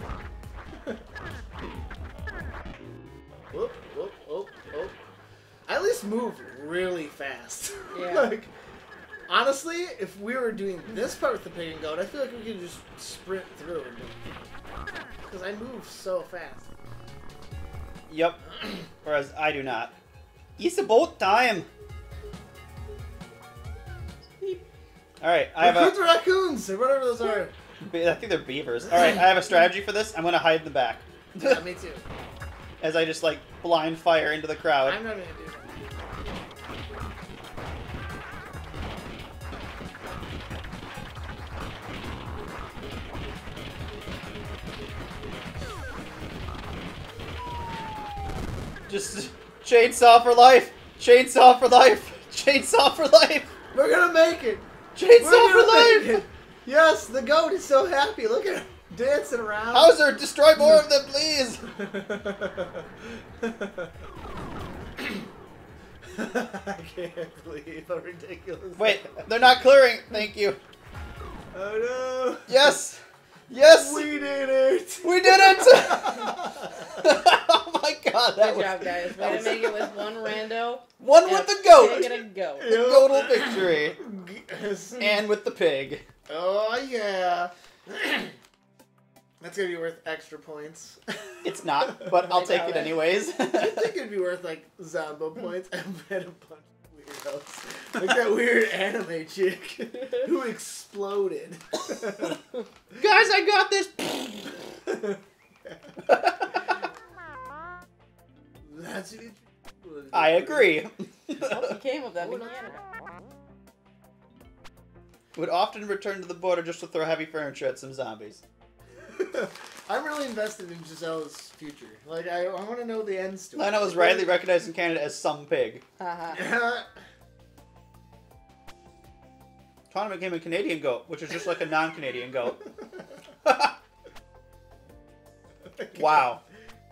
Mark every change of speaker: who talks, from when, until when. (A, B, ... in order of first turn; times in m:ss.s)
0:03.5-0:05.0 A
0:05.7-0:08.5 A
0:07.9-0:08.3 B
0:09.3-0:14.2 A
0:15.2-0:16.7 A
0:18.1-0:18.4 C
0:19.0-0:20.0 C
0:20.6-0:21.7 C
0:25.2-0:26.0 C
0:25.6-0:27.5 A
0:27.8-0:31.6 C
0:31.4-0:32.0 A
0:32.8-0:35.0 C
0:34.8-0:35.8 A
0:48.9-0:53.5 C
0:53.7-1:00.2 A
0:55.0-0:56.2 C
0:59.7-1:01.6 C
1:01.6-1:03.9 A
1:06.1-1:09.2 A
1:08.8-1:10.6 C
1:11.5-1:12.8 A
1:12.5-1:14.1 C
1:13.6-1:17.0 A
1:15.0-1:16.4 C
1:17.0-1:19.7 C
1:18.4-1:22.8 B
1:19.2-1:20.0 A
1:21.0-1:24.0 C
1:21.8-1:25.2 A
1:25.0-1:26.0 C
1:26.3-1:28.4 A
1:29.4-1:32.7 A
1:31.4-1:33.9 C
1:32.3-1:33.0 B
1:33.5-1:42.4 A
1:43.0-1:44.5 C
1:44.9-1:45.2 A
1:46.1-1:46.6 C
1:48.7-1:50.8 A
1:50.1-1:51.7 C
1:51.4-1:52.8 B
1:52.2-1:52.7 A
1:55.4-1:58.4 C
1:59.1-2:04.4 A
2:03.6-2:05.8 C
2:06.0-2:06.4 B
2:06.3-2:06.9 A
2:09.9-2:12.6 C
2:13.4-2:13.7 C
2:15.8-2:16.2 A
2:16.0-2:16.4 C